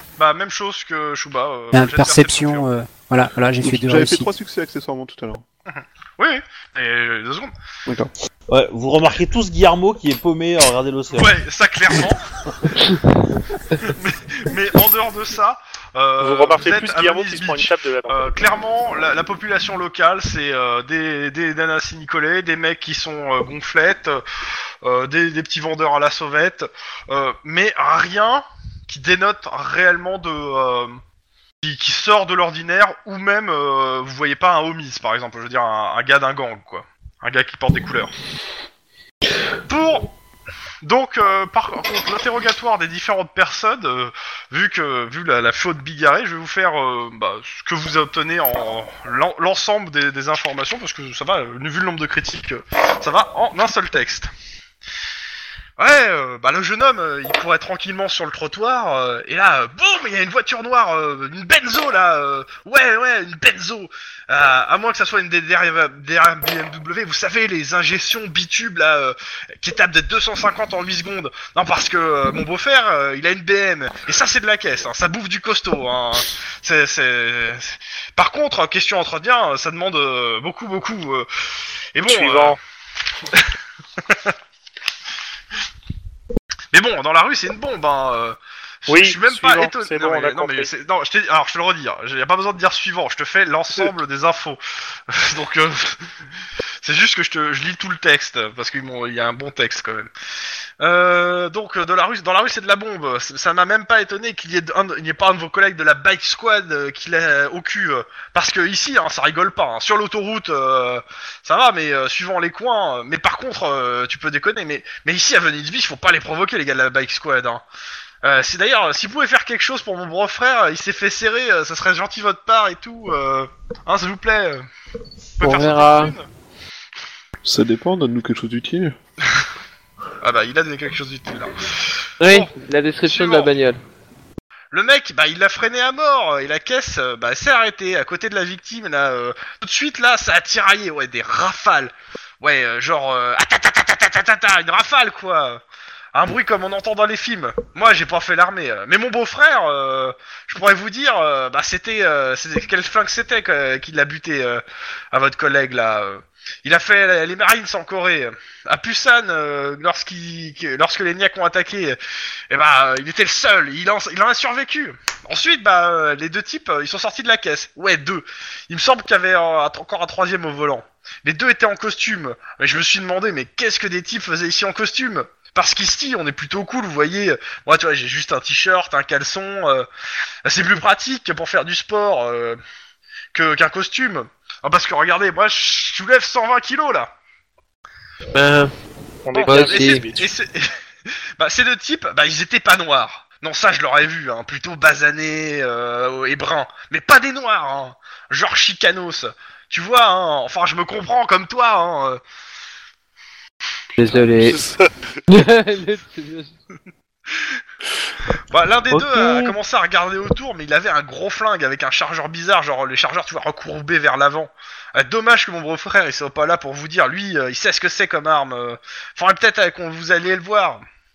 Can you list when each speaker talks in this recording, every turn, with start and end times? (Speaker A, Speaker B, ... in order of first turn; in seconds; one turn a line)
Speaker A: 0.2-2.7
Speaker B: 1.7-4.3
Speaker C: 3.6-5.4
Speaker A: 5.7-7.5
Speaker D: 8.5-11.3
Speaker A: 11.1-12.2
Speaker A: 13.8-24.2
Speaker E: 16.2-18.4
Speaker A: 24.8-31.0
Speaker A: 31.6-38.1
Speaker A: 39.7-40.1
Speaker A: 40.8-54.3
Speaker A: 55.8-81.3
Speaker A: 81.9-82.6
Speaker E: 82.0-82.6
Speaker A: 84.0-84.3
Speaker A: 86.7-96.1
Speaker E: 88.9-90.7
Speaker A: 96.8-100.1
Speaker A: 100.8-117.6
Speaker A: 118.2-124.7
Speaker A: 125.4-126.3
Speaker F: 125.4-126.2
Speaker C: 127.4-128.9
Speaker A: 130.2-132.5
Speaker F: 132.2-133.8
Speaker A: 133.1-133.5
Speaker A: 134.7-145.6
Speaker A: 146.1-162.0
Speaker A: 162.5-179.9
Speaker A: 180.4-182.6
Speaker A: 183.3-187.1
Speaker F: 188.3-188.7
Speaker E: 189.2-190.3
Speaker A: 189.3-190.7
Speaker F: 189.4-190.1
Speaker A: 191.4-202.2
Speaker F: 204.0-204.6
Speaker C: 204.1-204.7
Speaker F: 205.3-206.5
Speaker A: 208.5-220.8
Speaker F: 209.2-209.4